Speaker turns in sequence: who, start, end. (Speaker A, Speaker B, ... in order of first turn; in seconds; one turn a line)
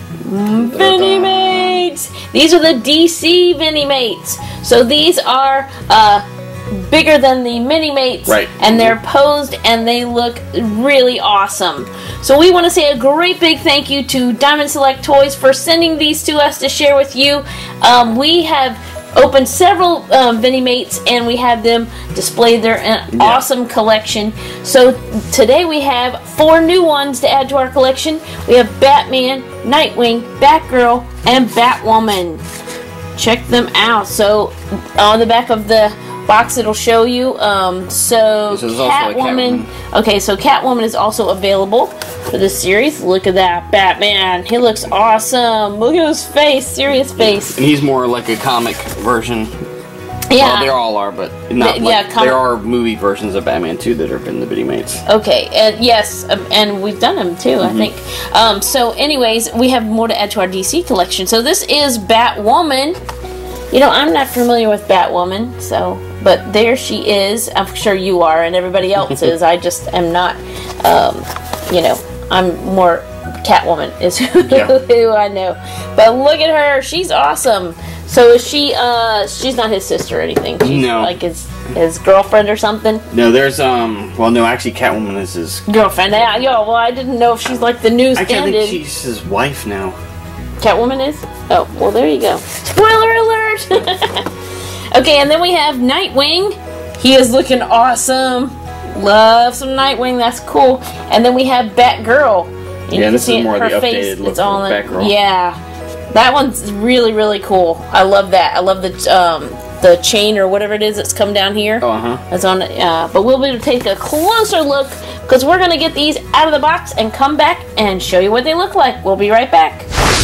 Speaker A: 0.2-32.4
Speaker B: 0.6-1.9
Speaker B: 8.3-9.0
Speaker B: 23.1-23.4
Speaker A: 33.1-47.6
Speaker B: 38.5-39.7
Speaker B: 47.2-49.5
Speaker A: 50.3-50.7
Speaker B: 50.4-55.0
Speaker A: 51.6-52.4
Speaker A: 55.1-63.0
Speaker B: 57.6-57.9
Speaker A: 63.7-83.0
Speaker B: 74.5-74.7
Speaker B: 80.6-81.1
Speaker B: 83.1-85.7
Speaker A: 85.7-88.8
Speaker B: 88.1-90.0
Speaker A: 90.6-94.3
Speaker A: 94.9-105.6
Speaker B: 102.9-105.2
Speaker A: 106.1-119.9
Speaker B: 111.8-112.2